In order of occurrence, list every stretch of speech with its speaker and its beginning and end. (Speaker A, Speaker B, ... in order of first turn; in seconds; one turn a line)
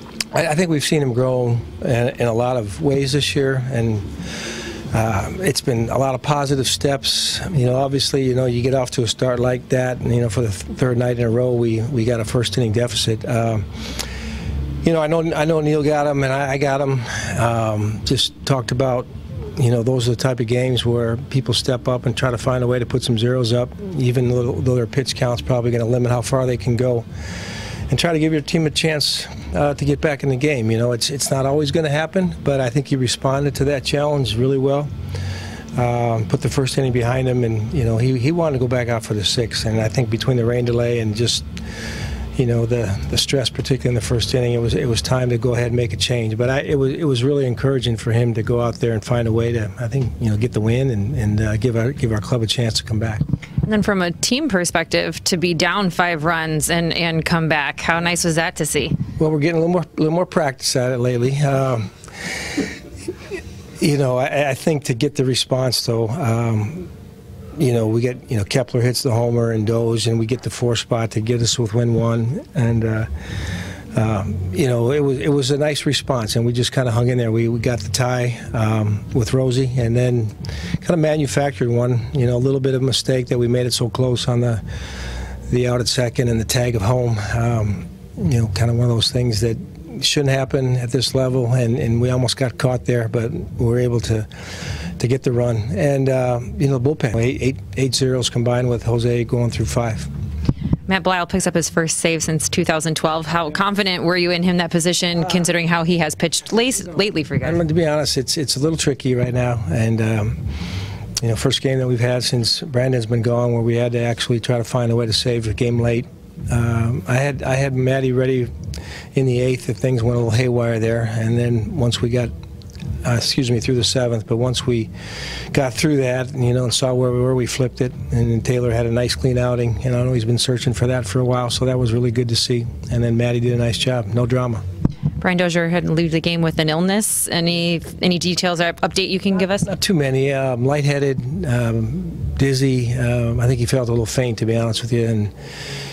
Speaker A: 0.3-13.9
Speaker A: 14.8-27.1
Speaker A: 27.9-34.9
Speaker A: 35.8-41.5
Speaker A: 42.4-53.2
Speaker B: 53.6-59.0
Speaker A: 59.2-61.9
Speaker A: 63.8-66.9
Speaker A: 67.6-73.1
Speaker A: 73.9-84.6
Speaker A: 85.5-94.3
Speaker A: 95.0-100.1
Speaker B: 100.9-107.6
Speaker A: 107.4-110.4
Speaker A: 111.2-118.5
Speaker A: 119.1-122.3
Speaker A: 123.0-124.9
Speaker A: 125.5-134.6
Speaker B: 135.2-139.7
Speaker A: 139.7-145.3